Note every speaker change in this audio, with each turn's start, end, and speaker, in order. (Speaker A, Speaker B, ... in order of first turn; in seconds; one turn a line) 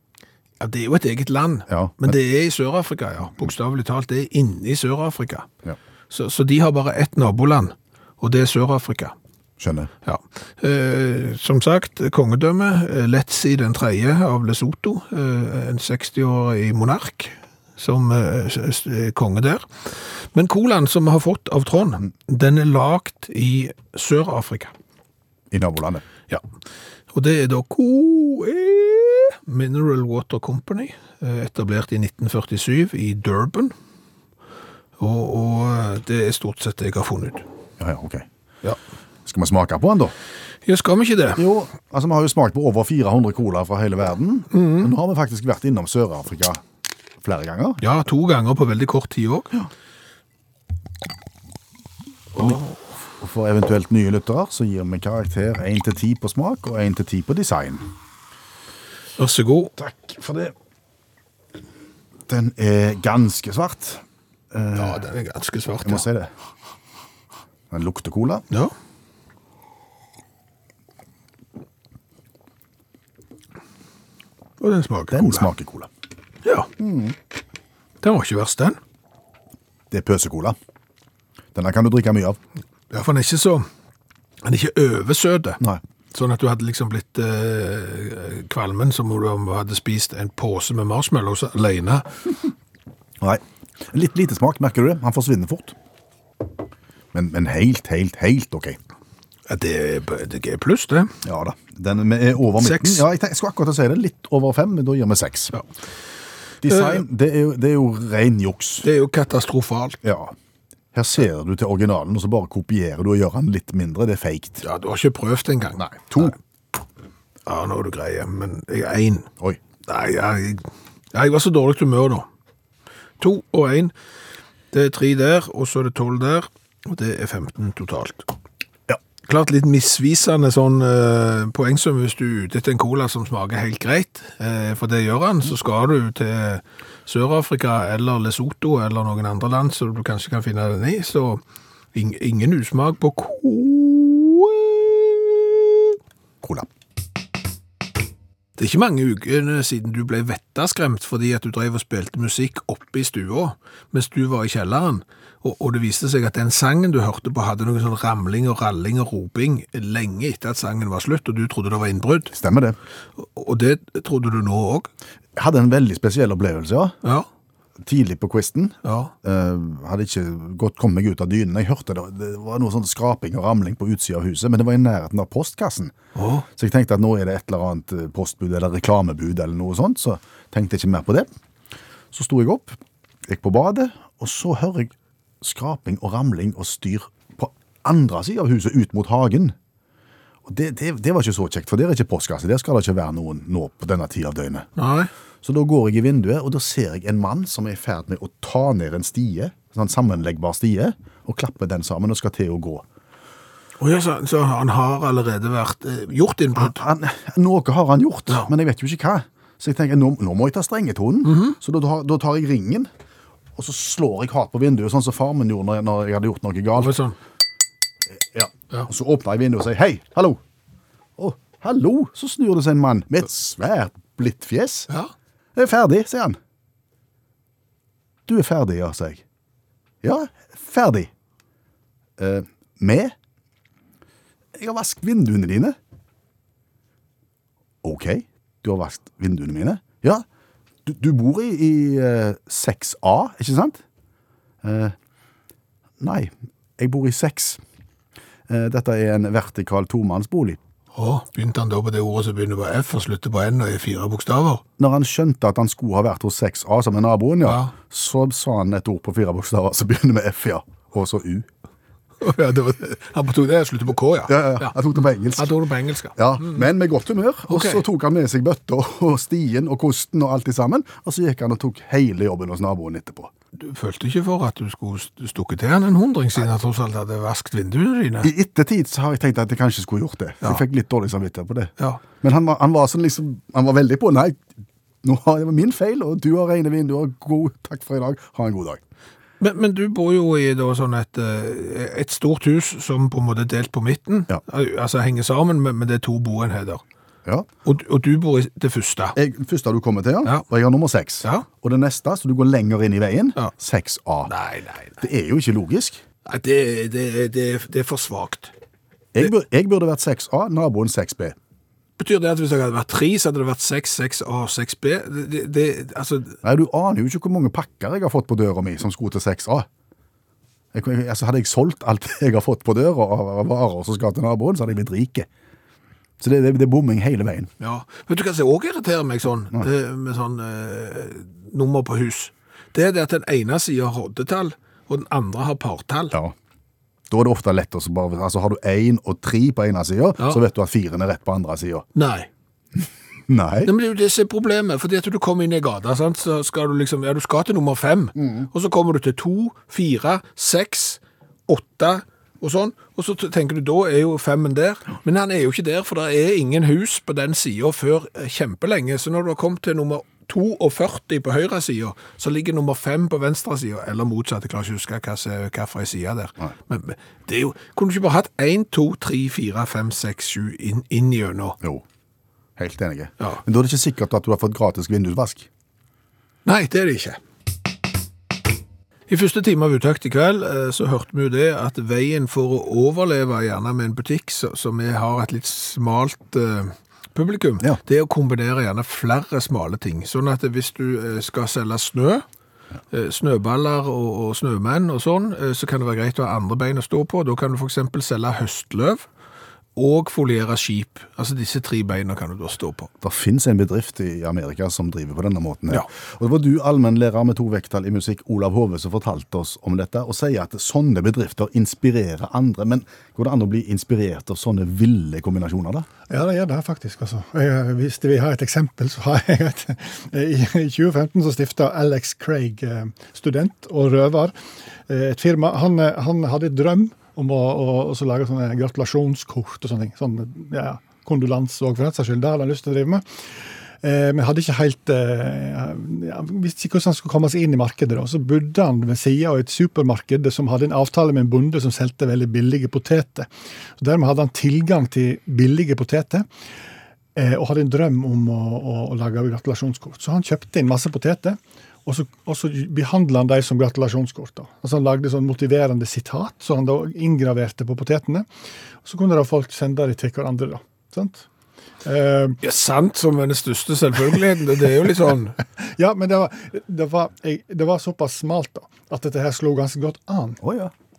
Speaker A: 0.6-5.5
Speaker B: 1.7-2.1
Speaker A: 6.1-9.1
Speaker B: 9.6-9.9
Speaker A: 10.1-24.7
Speaker B: 25.5-26.0
Speaker A: 27.1-33.7
Speaker A: 35.0-37.5
Speaker B: 37.8-38.3
Speaker B: 39.3-40.1
Speaker A: 40.6-41.5
Speaker B: 41.4-46.6
Speaker A: 44.5-44.9
Speaker B: 47.2-47.8
Speaker A: 47.8-49.6
Speaker A: 52.4-52.7
Speaker B: 52.4-52.6
Speaker B: 53.2-57.9
Speaker A: 59.2-59.7
Speaker B: 59.8-60.5
Speaker B: 62.3-65.0
Speaker A: 64.8-66.1
Speaker B: 65.8-66.3
Speaker B: 67.7-68.5
Speaker A: 74.6-75.5
Speaker B: 75.1-75.9
Speaker B: 76.8-77.1
Speaker A: 78.0-78.8
Speaker B: 79.9-80.6
Speaker B: 81.5-82.4
Speaker A: 82.9-83.7
Speaker A: 84.4-85.6
Speaker A: 86.1-92.1
Speaker B: 93.2-95.8
Speaker B: 97.1-98.8
Speaker A: 99.5-101.1
Speaker B: 101.2-105.5
Speaker A: 102.6-103.0
Speaker B: 106.6-108.9
Speaker A: 106.7-107.0
Speaker A: 108.8-110.0
Speaker B: 110.0-110.3
Speaker B: 110.9-114.7
Speaker A: 114.6-116.3
Speaker B: 115.8-116.3
Speaker A: 117.5-119.3
Speaker A: 119.9-122.3
Speaker A: 123.2-123.9
Speaker A: 124.7-128.3
Speaker A: 129.3-141.4
Speaker A: 141.9-145.9
Speaker B: 146.4-146.7
Speaker A: 148.6-162.3
Speaker B: 162.3-162.8
Speaker A: 163.2-164.9
Speaker B: 165.4-167.0
Speaker B: 167.8-175.9
Speaker A: 168.8-169.1
Speaker A: 176.1-176.5
Speaker B: 176.6-181.3
Speaker B: 182.1-189.6
Speaker B: 190.4-194.7
Speaker A: 194.8-195.1
Speaker B: 195.4-202.8
Speaker A: 203.8-206.8
Speaker B: 206.6-212.9
Speaker A: 211.2-211.6
Speaker B: 213.6-217.0
Speaker A: 216.8-217.2
Speaker B: 218.1-220.4
Speaker B: 221.2-224.9
Speaker B: 225.6-226.4
Speaker B: 228.3-229.2
Speaker B: 230.0-231.1
Speaker B: 232.2-233.1
Speaker B: 234.6-235.8
Speaker B: 237.8-240.2
Speaker B: 240.8-243.8
Speaker B: 244.6-244.9
Speaker B: 246.0-247.6
Speaker B: 248.5-250.6
Speaker A: 250.9-254.6
Speaker B: 254.8-261.5
Speaker A: 257.4-257.7
Speaker A: 262.2-264.8
Speaker B: 264.3-265.5
Speaker A: 265.4-266.6
Speaker B: 266.2-273.3
Speaker A: 267.5-267.8
Speaker A: 273.6-278.3
Speaker B: 278.2-284.4
Speaker B: 285.0-288.8
Speaker A: 289.4-296.8
Speaker A: 297.6-299.2
Speaker B: 299.1-304.3
Speaker A: 304.3-305.0
Speaker B: 305.0-306.0
Speaker A: 306.3-308.5
Speaker B: 309.1-311.4
Speaker A: 312.0-316.4
Speaker B: 316.4-319.7
Speaker B: 320.7-325.3
Speaker B: 326.2-327.5
Speaker A: 327.6-336.2
Speaker B: 337.1-341.9
Speaker A: 341.9-342.3
Speaker B: 343.3-343.7
Speaker A: 343.6-371.6
Speaker B: 348.2-348.5
Speaker B: 372.6-375.5
Speaker A: 376.4-377.2
Speaker A: 379.1-392.2
Speaker A: 392.9-399.1
Speaker A: 399.8-402.9
Speaker B: 403.0-415.9
Speaker C: 416.1-424.3
Speaker C: 424.9-433.0
Speaker C: 433.8-443.3
Speaker C: 443.8-446.3
Speaker C: 447.2-458.3
Speaker C: 458.9-461.3
Speaker C: 461.9-462.4
Speaker A: 462.4-465.4
Speaker C: 465.6-470.4
Speaker B: 470.4-470.7